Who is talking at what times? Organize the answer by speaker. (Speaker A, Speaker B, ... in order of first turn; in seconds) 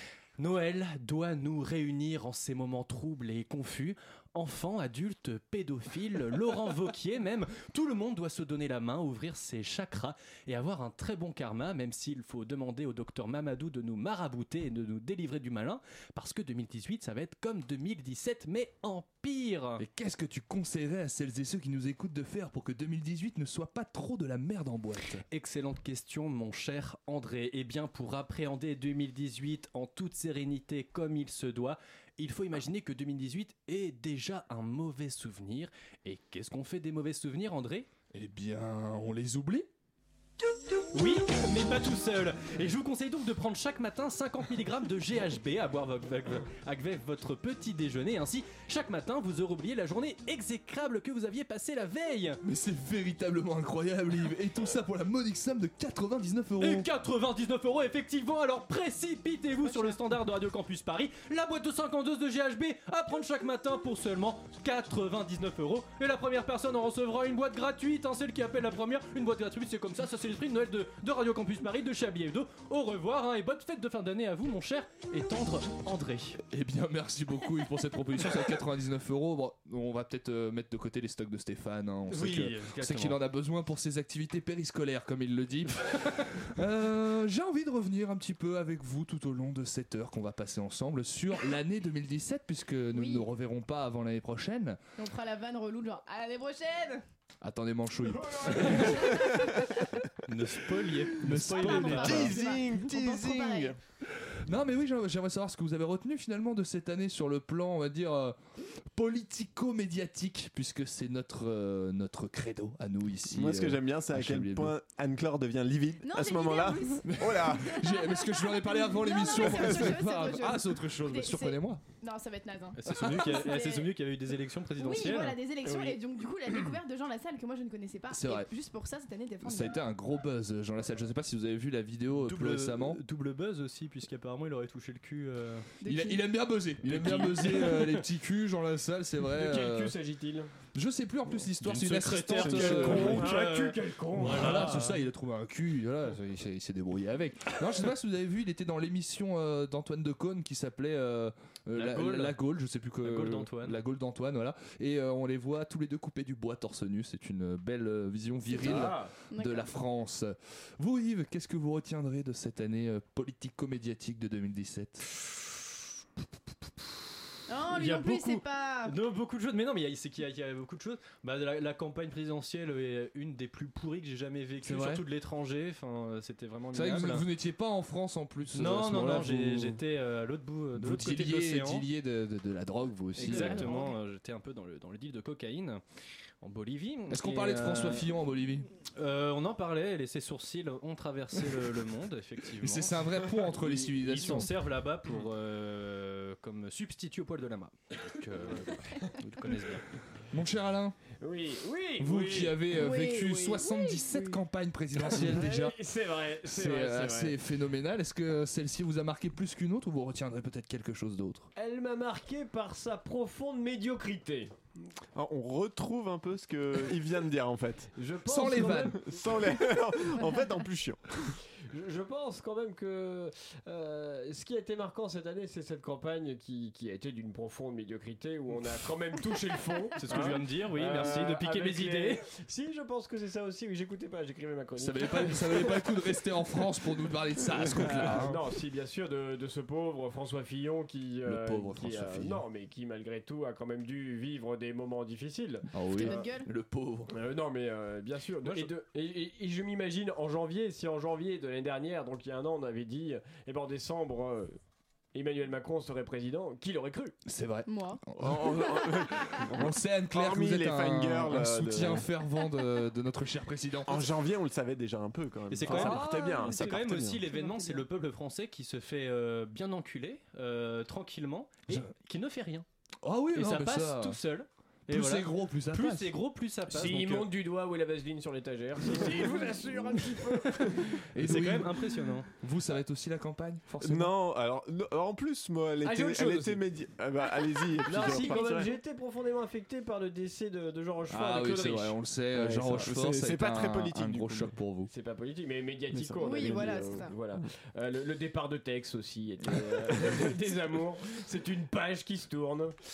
Speaker A: 0.4-19.8, 25.3-37.9, 40.9-52.4, 56.6-76.4, 82.1-83.2, 100.3-102.3, 122.8-125.4, 132.1-135.7, 136.8-137.9, 141.6-145.0, 151.7-152.3, 153.0-153.8, 167.6-177.2, 178.5-181.8, 183.2-185.8, 186.4-188.1, 188.9-193.0, 193.5-199.8, 229.9-232.2, 248.4-248.7, 265.5-272.6, 273.3-277.3, 281.2-282.3
Speaker B: 19.8-25.2, 38.1-39.7, 52.4-56.9, 76.5-94.8, 97.4-99.2, 101.2-102.4, 104.4-108.4, 108.9-114.7, 117.0-121.8, 128.1-128.5, 129.4-133.0, 135.8-139.9, 140.7-143.3, 144.2-165.1, 174.6-175.0, 176.7-179.8, 180.8-183.7, 187.1-188.7, 192.6-194.5, 200.3-201.0, 202.0-205.8, 206.4-211.5, 218.2-219.0, 234.8-238.4, 241.2-242.4, 245.7-247.1, 257.2-264.1, 265.6-266.3, 273.0-274.2, 274.9-276.1, 281.1-284.1, 291.1-294.9
Speaker C: 59.6-60.0, 92.9-93.2, 95.0-97.0, 98.8-99.4, 101.4-103.7, 116.0-123.9, 124.8-129.8, 135.8-136.2, 158.5-159.7, 167.5-168.9, 183.2-184.0, 202.7-204.3, 245.9-246.5, 257.7-258.0, 267.4-267.8, 296.2-297.1
Speaker D: 99.1-99.5, 101.8-103.8, 113.3-117.8, 119.4-119.9, 215.1-217.9, 219.0-221.1, 258.2-262.1, 263.9-267.2, 283.8-288.7, 292.4-294.5, 295.9-296.9, 299.9-300.3
Speaker E: 139.3-140.5, 142.3-144.7, 158.6-159.1, 201.2-202.7, 205.0-207.3, 211.6-214.5, 217.9-219.4, 221.7-236.0, 237.5-246.2, 247.1-254.6, 255.1-257.1, 276.7-281.0, 285.8-286.6, 287.8-292.0, 294.9-302.8